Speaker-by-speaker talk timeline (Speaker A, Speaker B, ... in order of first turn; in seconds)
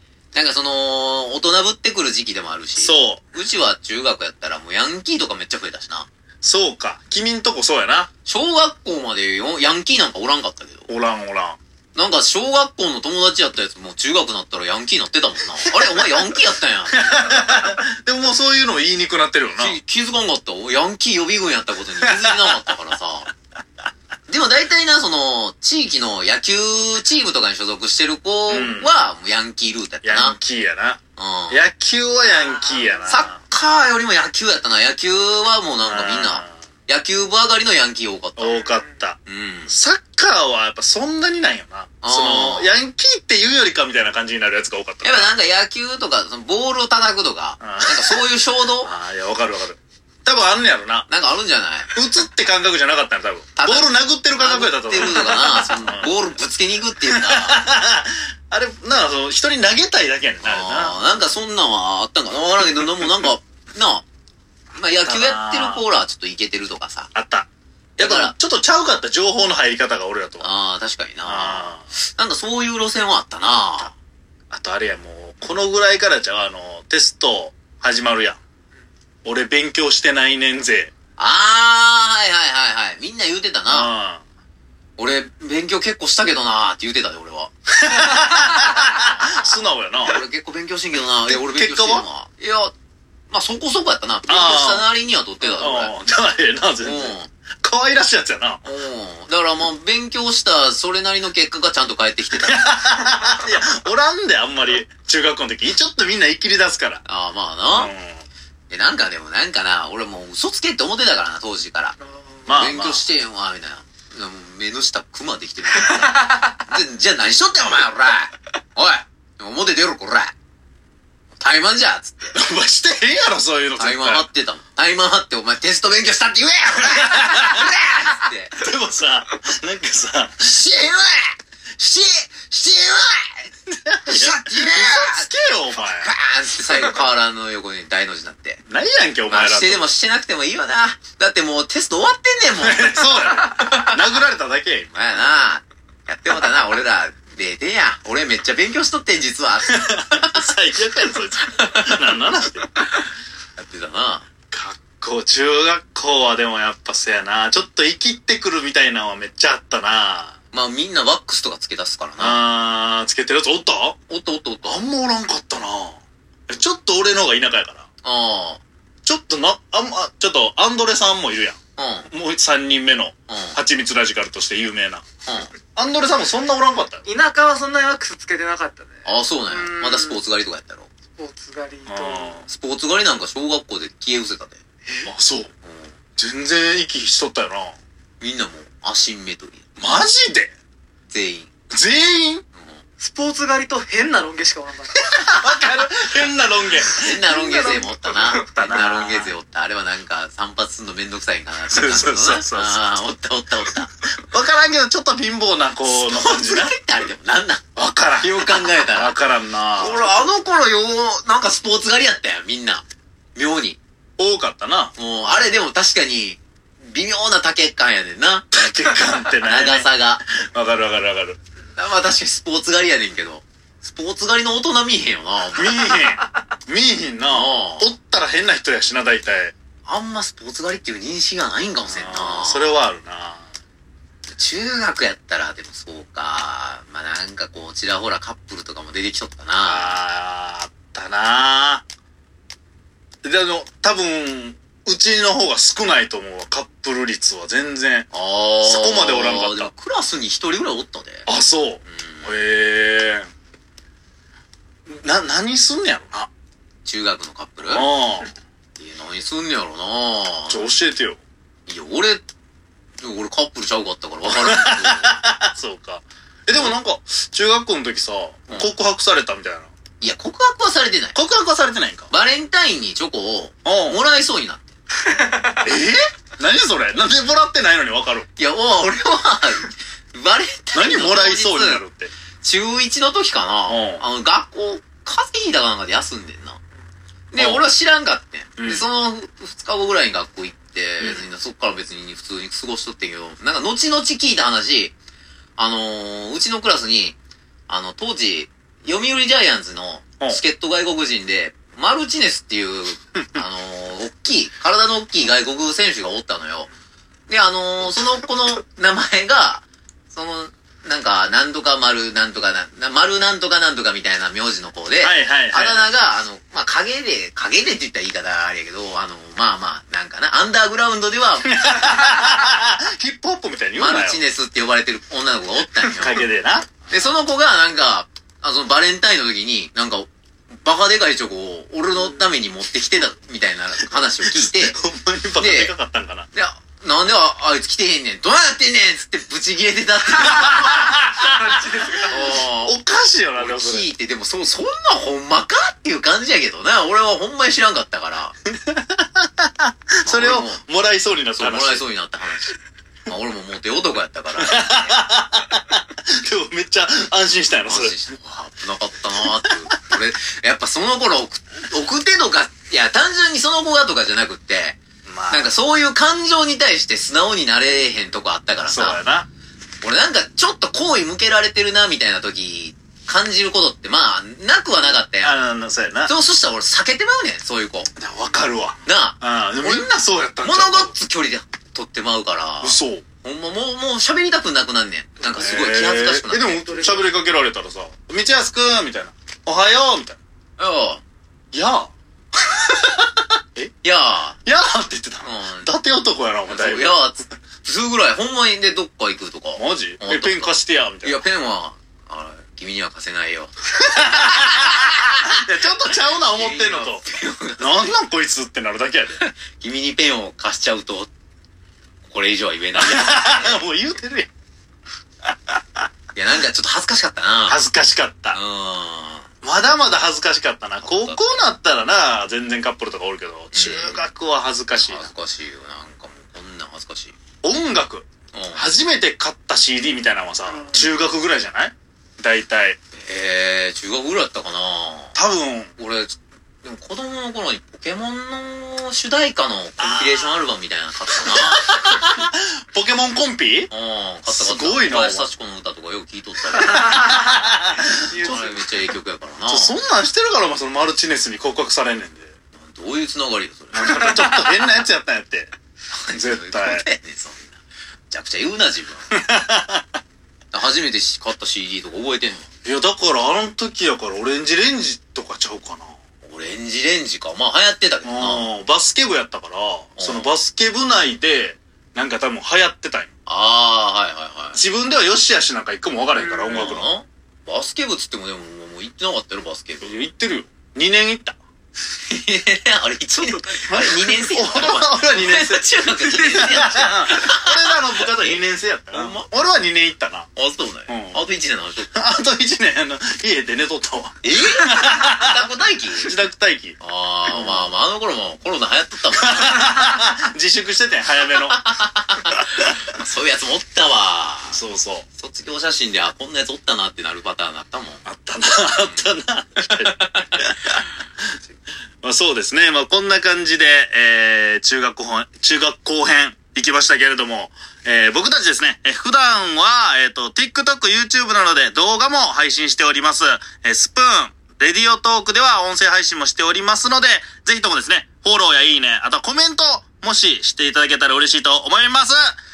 Speaker A: 0.3-6.1, 8.3-10.9, 11.9-17.7, 19.6-23.3, 24.3-30.4, 31.2-31.6, 33.1-38.7, 39.3-39.8, 42.0-42.7, 45.0-48.9, 51.1-51.9, 53.6-57.6, 60.4-64.0, 64.7-67.1, 68.0-68.3, 70.4-73.9, 81.2-83.9, 85.0-92.7, 93.3-95.9, 96.8-97.3, 98.6-103.2, 107.0-107.9, 108.7-112.0, 112.5-120.3, 121.4-122.3, 123.8-128.6, 131.8-133.5, 134.1-138.6, 139.3-143.3, 144.9-150.5, 153.6-154.3, 160.5-162.4, 164.1-164.8, 168.0-168.6, 171.8-172.1, 173.3-173.6, 175.3-175.5, 179.1-180.9, 182.5-184.6, 185.6-186.0, 188.2-189.6, 191.1-191.5, 192.6-192.8, 196.9-203.9, 205.8-207.7, 208.2-209.2, 209.8-213.8, 215.0-218.5, 219.2-220.2, 221.8-226.0, 227.3-227.9, 229.9-232.7, 234.3-240.0, 248.1-251.3, 251.9-252.4, 256.9-258.0, 258.8-260.7, 261.7-262.3, 263.0-265.2, 270.0-271.2, 272.1-274.7, 278.4-281.8, 282.4-286.6, 287.3-294.9, 295.6-297.2, 297.7-306.7, 307.3-321.9, 323.8-326.3, 326.9-330.1, 330.6-334.8, 335.4-335.8, 336.3-341.0, 342.0-342.8, 343.4-348.4, 350.1-350.6, 351.4-355.0, 357.7-364.8, 365.3-369.0, 369.8-375.4, 376.1-377.9, 378.9-386.6, 390.6-391.0, 393.8-394.4, 395.2-395.7, 396.5-405.4, 406.2-408.0, 409.2-411.1, 412.1-413.6, 416.1-417.6, 418.3-419.3, 420.8-421.4, 423.5-424.1, 424.8-427.1, 428.3-428.7, 433.0-435.2, 435.8-441.9, 443.7-447.4, 448.1-449.8, 452.6-454.5, 455.9-457.6, 458.1-459.2, 460.5-462.5, 466.2-468.5, 470.0-470.3, 473.3-474.6, 476.5-480.0, 482.1-488.4, 488.9-489.3, 490.4-491.9, 494.2-496.1, 496.8-499.8, 501.5-504.6, 505.2-508.0, 508.7-509.1, 509.8-510.4
Speaker B: 2.8-3.2, 6.4-8.1, 10.9-11.6, 15.8-16.2, 16.9-19.8, 22.0-22.6, 28.5-28.9, 30.0-31.0, 31.5-33.4, 35.8-36.5, 38.4-39.2, 39.7-45.4, 47.6-48.3, 48.8-51.1, 51.9-56.1, 57.1-61.0, 65.0-65.8, 67.2-70.5, 71.2-71.9, 74.5-78.4, 79.2-80.9, 83.7-84.2, 87.8-90.2, 91.3-92.1, 94.3-94.9, 95.5-98.6, 102.4-107.0, 107.7-108.3, 112.5-113.0, 122.3-124.3, 126.8-127.7, 128.6-131.3, 133.9-136.1, 136.7-137.0, 138.7-139.9, 142.6-144.9, 149.6-152.7, 154.5-160.4, 162.2-164.0, 164.6-167.9, 169.1-171.6, 172.1-175.0, 175.8-177.1, 181.9-182.5, 185.1-185.5, 186.2-187.8, 189.8-190.5, 191.7-192.4, 195.3-199.3, 201.7-202.8, 204.3-206.7, 207.8-210.2, 214.2-215.5, 218.5-221.4, 225.6-229.5, 231.9-233.4, 239.6-241.8, 243.2-248.1, 248.6-249.7, 251.3-253.3, 254.9-256.3, 257.7-258.3, 260.5-261.2, 264.3-269.7, 271.1-272.1, 273.6-274.0, 275.6-278.3, 280.8-282.1, 283.7-284.0, 287.4-287.7, 288.6-288.9, 315.0-315.9, 321.5-324.2, 326.0-327.1, 333.9-336.3, 340.2-343.9, 348.6-351.9, 354.4-357.9, 365.1-365.5, 368.7-369.3, 375.2-376.1, 378.0-380.9, 382.6-383.0, 385.3-390.2, 391.5-391.9, 394.4-397.0, 399.6-401.3, 403.9-407.0, 407.6-409.2, 412.8-414.3, 415.3-415.8, 417.5-418.4, 419.4-425.1, 427.4-432.8, 435.1-435.7, 439.8-440.4, 441.3-443.7, 444.3-445.3, 446.7-448.4, 449.5-452.3, 453.7-455.5, 456.1-456.9, 459.1-460.0, 462.6-465.9, 468.0-473.1, 474.5-476.9, 479.8-481.4, 483.7-490.3, 490.9-491.2, 491.9-496.8, 497.3-497.7, 499.2-501.7, 504.5-505.1, 508.1-510.8, 512.0-532.4
Speaker C: 32.3-33.1, 115.9-116.4, 177.1-180.2, 181.2-182.5, 193.0-195.4, 275.1-275.6, 341.2-342.3, 386.7-387.1, 430.5-430.9, 446.6-447.3, 448.1-448.6, 476.2-476.8, 483.2-483.7, 486.0-486.8